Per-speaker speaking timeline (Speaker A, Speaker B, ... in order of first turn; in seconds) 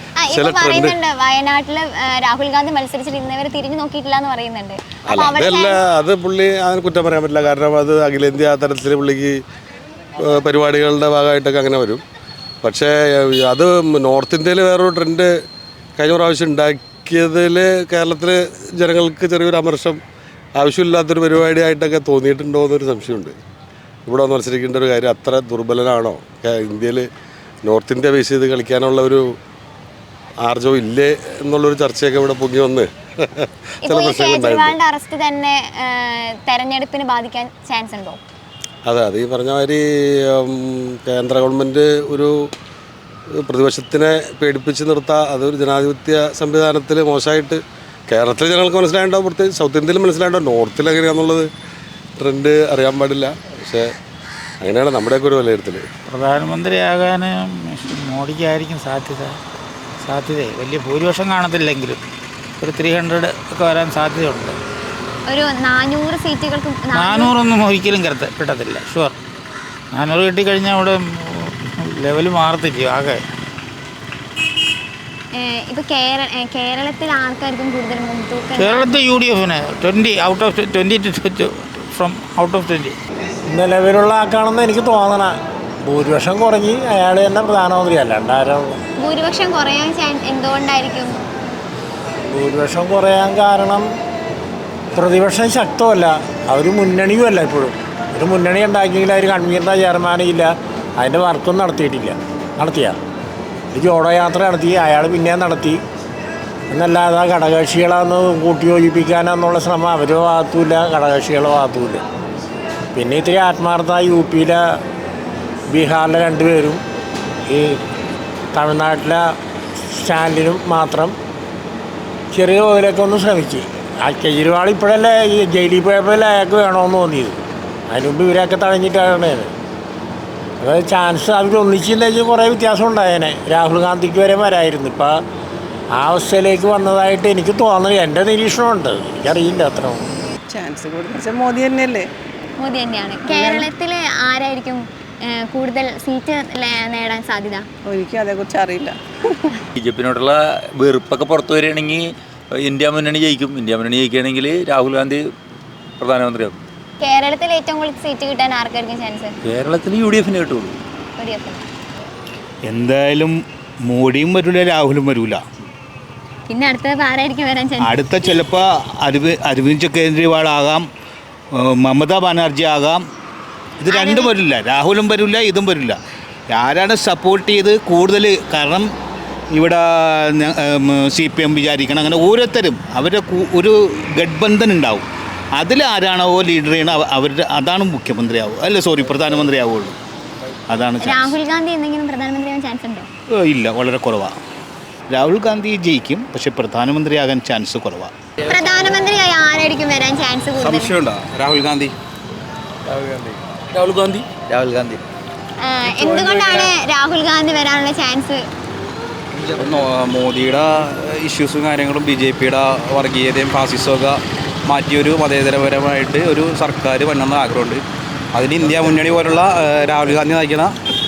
Speaker A: 0.2-5.8, 33.8-38.2, 65.3-67.3, 75.3-78.9, 89.0-91.2, 142.6-147.7, 157.0-159.4, 161.2-161.7, 166.5-167.9, 173.9-174.3, 191.0-193.1, 198.5-201.0, 205.6-208.4
Speaker B: 0.3-1.0, 5.1-9.4, 10.2-12.0, 12.6-15.3, 16.0-20.0, 20.6-23.4, 24.1-27.1, 27.6-29.3, 30.4-34.7, 38.9-42.3, 43.4-51.5, 52.2-53.9, 54.6-55.8
Speaker C: 56.1-59.4, 60.0-62.0, 62.6-64.6, 66.9-69.1, 69.9-71.0, 71.8-73.2, 78.5-83.0
Speaker D: 83.6-85.3, 85.9-88.7, 92.3-93.8, 95.0-100.5, 101.0-102.9, 103.8-105.8, 106.7-112.0, 113.0-114.5, 115.7-116.8, 118.5-119.2, 120.1-121.1, 122.4-127.3, 127.9-129.5, 130.6-135.1, 136.0-140.0
Speaker E: 140.5-142.1, 143.3-143.7, 147.8-149.0
Speaker F: 149.8-152.0, 152.6-155.2, 156.0-156.5, 159.4-160.8
Speaker G: 162.7-165.4, 167.8-170.8, 171.6-173.0, 173.8-176.0, 176.5-178.9, 179.5-185.1, 185.6-190.0, 190.7-191.4, 193.3-194.3, 195.1-198.1
Speaker H: 200.6-201.9, 202.9-205.0, 206.0-206.7, 209.4-220.8